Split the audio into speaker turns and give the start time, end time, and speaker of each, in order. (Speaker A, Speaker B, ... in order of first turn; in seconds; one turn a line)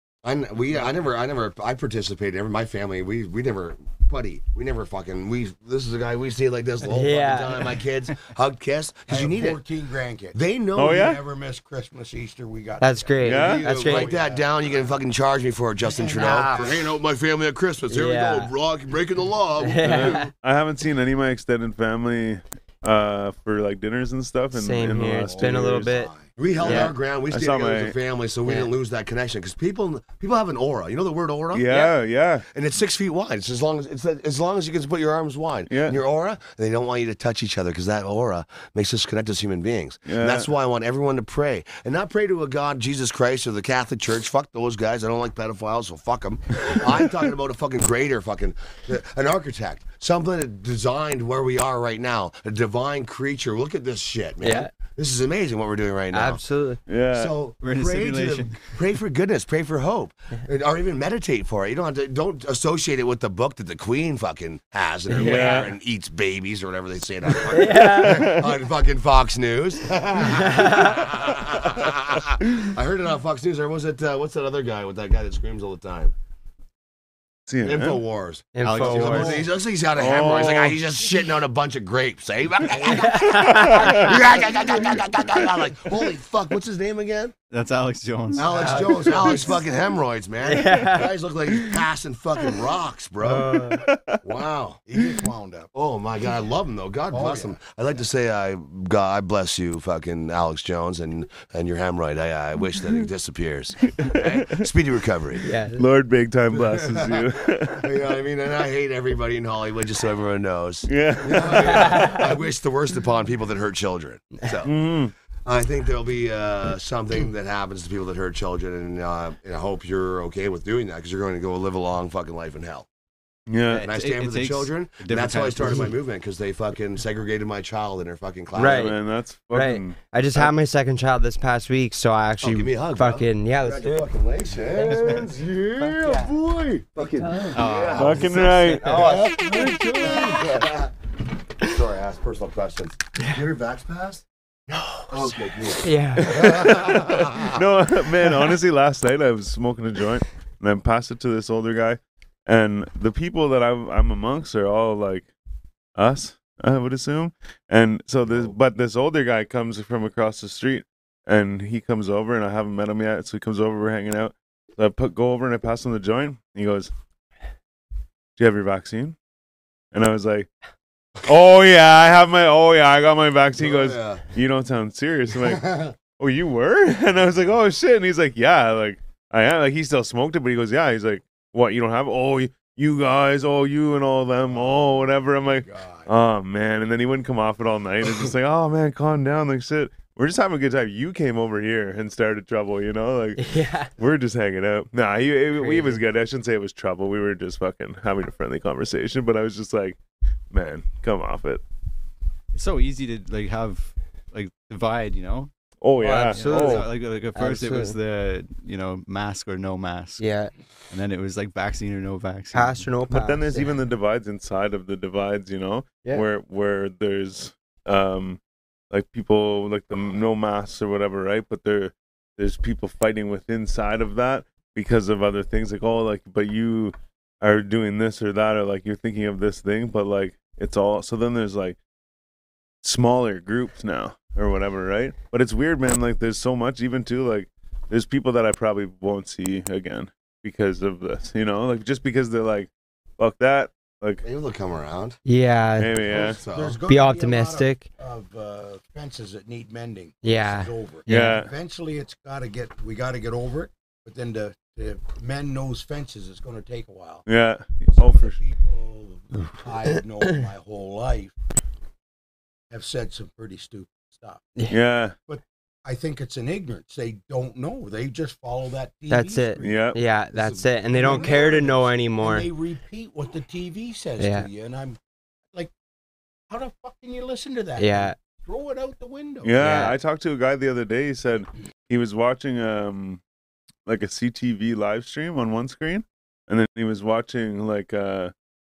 Speaker A: 0.2-9.6
Speaker B: 6.9-7.7
Speaker C: 9.1-15.0
Speaker A: 10.3-11.1
Speaker D: 10.8-11.2
Speaker B: 12.8-14.1
Speaker D: 13.2-13.7
Speaker A: 13.3-20.3
Speaker C: 15.9-16.6
Speaker B: 16.1-16.7
Speaker B: 17.9-18.5
Speaker B: 19.6-20.3
Speaker D: 19.8-25.9
Speaker B: 24.5-26.1
Speaker C: 25.2-26.3
Speaker A: 26.4-31.9
Speaker D: 26.6-27.9
Speaker B: 26.6-26.9
Speaker D: 31.5-32.5
Speaker A: 32.5-56.4
Speaker D: 35.7-36.0
Speaker D: 40.1-40.5
Speaker B: 54.4-54.7
Speaker B: 56.1-56.8
Speaker D: 56.9-57.3
Speaker A: 57.1-76.1
Speaker E: 57.6-58.7
Speaker B: 65.1-65.7
Speaker D: 65.2-65.7
Speaker B: 67.5-68.3
Speaker D: 67.7-68.5
Speaker B: 70.3-71.0
Speaker D: 77.5-78.0
Speaker A: 77.6-87.3
Speaker B: 78.5-79.4
Speaker E: 78.6-79.5
Speaker D: 80.0-80.8
Speaker B: 82.9-84.1
Speaker D: 83.3-84.4
Speaker E: 87.5-88.9
Speaker A: 88.3-94.8
Speaker C: 88.5-89.6
Speaker B: 88.5-89.5
Speaker B: 90.4-91.1
Speaker B: 93.2-93.9
Speaker D: 93.8-94.2
Speaker C: 94.9-95.7
Speaker A: 95.7-105.5
Speaker C: 97.1-97.6
Speaker D: 104.0-104.5
Speaker B: 105.4-105.8
Speaker D: 105.8-107.9
Speaker A: 106.5-114.7
Speaker D: 110.9-112.2
Speaker B: 111.9-112.2
Speaker D: 114.7-115.1
Speaker A: 115.5-122.9
Speaker D: 123.5-123.9
Speaker E: 123.7-126.0
Speaker A: 123.8-128.9
Speaker B: 128.6-129.0
Speaker D: 128.6-130.5
Speaker B: 129.5-134.1
Speaker A: 132.4-140.9
Speaker B: 135.8-136.3
Speaker B: 137.2-137.8
Speaker E: 137.5-139.1
Speaker D: 138.0-140.6
Speaker B: 138.8-139.4
Speaker A: 141.6-147.6
Speaker B: 145.8-146.3
Speaker D: 146.2-155.3
Speaker D: 156.0-166.9
Speaker D: 168.4-169.2
Speaker D: 169.9-170.5
Speaker D: 171.2-193.4
Speaker A: 173.6-174.2
Speaker A: 175.3-175.9
Speaker C: 184.4-186.1
Speaker B: 193.4-193.9
Speaker D: 194.0-200.0
Speaker B: 195.6-196.0
Speaker D: 200.5-201.6
Speaker E: 202.5-205.5
Speaker D: 205.8-206.9
Speaker B: 206.0-208.0
Speaker E: 206.3-210.2
Speaker B: 210.2-210.5
Speaker E: 210.9-212.9
Speaker B: 212.5-213.8
Speaker D: 213.1-218.4
Speaker D: 218.9-231.8
Speaker D: 232.8-244.2
Speaker A: 244.2-245.2
Speaker B: 245.2-246.0
Speaker D: 245.8-246.4
Speaker A: 246.1-246.8
Speaker C: 246.2-257.2
Speaker B: 246.9-247.8
Speaker B: 250.2-251.4
Speaker D: 251.1-251.5
Speaker D: 257.3-258.4
Speaker C: 257.9-261.3
Speaker C: 262.7-264.5
Speaker D: 264.7-265.1
Speaker C: 265.3-275.0
Speaker B: 269.1-272.5
Speaker D: 269.6-270.0
Speaker B: 274.2-274.5
Speaker C: 276.5-279.6
Speaker B: 277.8-278.2
Speaker D: 279.4-283.2
Speaker B: 279.6-279.9
Speaker D: 283.9-288.3